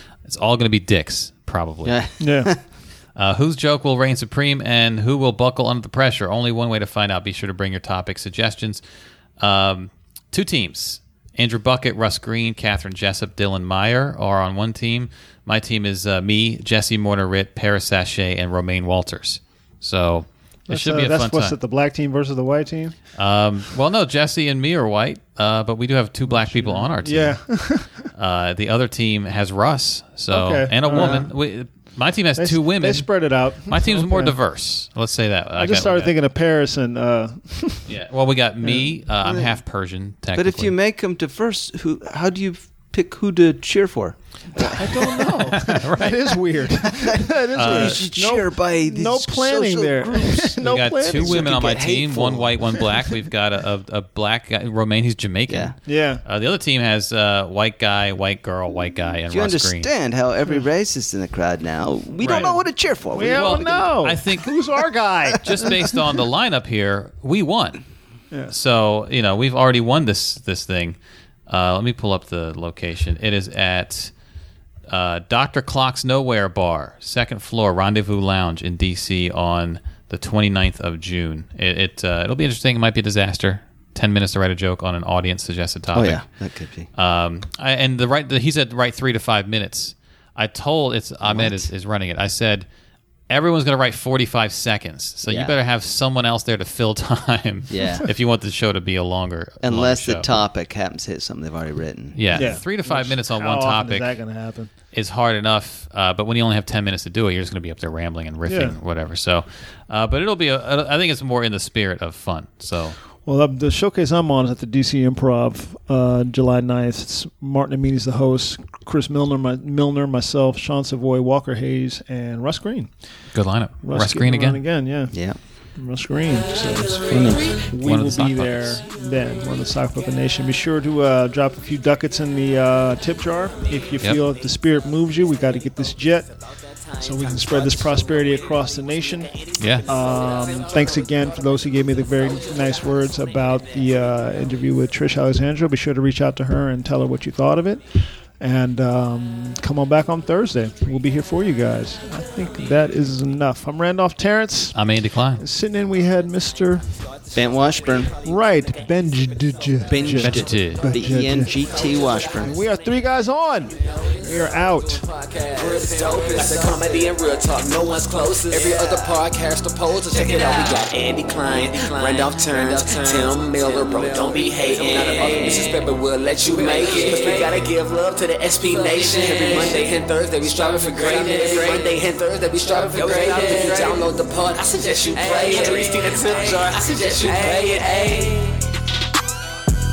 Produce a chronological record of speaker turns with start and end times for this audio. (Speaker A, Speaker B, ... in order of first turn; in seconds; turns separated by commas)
Speaker A: 0.2-2.1, Speaker B: 1.8-2.6, Speaker C: 2.2-2.5, Speaker A: 3.1-8.8, Speaker A: 9.4-21.6, Speaker C: 20.7-22.9, Speaker A: 23.1-36.1, Speaker C: 26.3-28.1, Speaker C: 30.3-31.3, Speaker C: 32.4-34.4, Speaker C: 35.6-37.9, Speaker A: 37.9-40.7, Speaker B: 39.2-39.5, Speaker B: 40.3-45.5, Speaker C: 44.5-51.5, Speaker A: 45.4-46.4, Speaker B: 46.9-52.6, Speaker A: 47.5-48.0, Speaker A: 50.6-59.9, Speaker B: 55.5-55.7, Speaker C: 55.9-56.2, Speaker B: 59.3-63.8, Speaker A: 62.2-62.6, Speaker C: 63.1-65.7, Speaker A: 63.2-64.7, Speaker A: 65.3-67.8, Speaker A: 68.5-71.0, Speaker A: 71.5-74.1, Speaker A: 74.9-86.2, Speaker B: 85.9-86.9, Speaker A: 86.9-92.7, Speaker B: 91.2-91.7, Speaker A: 93.3-100.3, Speaker B: 95.2-95.5, Speaker B: 97.7-98.1, Speaker B: 99.6-102.6, Speaker A: 102.1-104.1, Speaker C: 102.3-104.7, Speaker A: 104.9-113.0, Speaker C: 108.5-108.8, Speaker C: 113.2-123.2, Speaker A: 123.3-124.6, Speaker C: 123.8-136.4, Speaker B: 125.1-125.4, Speaker B: 127.1-127.5, Speaker A: 127.8-128.8, Speaker D: 136.3-144.4, Speaker C: 136.9-139.3, Speaker A: 139.6-139.8, Speaker C: 139.8-157.1, Speaker A: 154.7-155.4, Speaker D: 157.1-159.2, Speaker B: 157.3-158.1, Speaker C: 158.2-161.7, Speaker B: 159.8-162.6, Speaker A: 160.2-160.9, Speaker D: 161.7-162.9, Speaker C: 162.4-165.0, Speaker D: 163.8-164.2, Speaker D: 165.0-188.5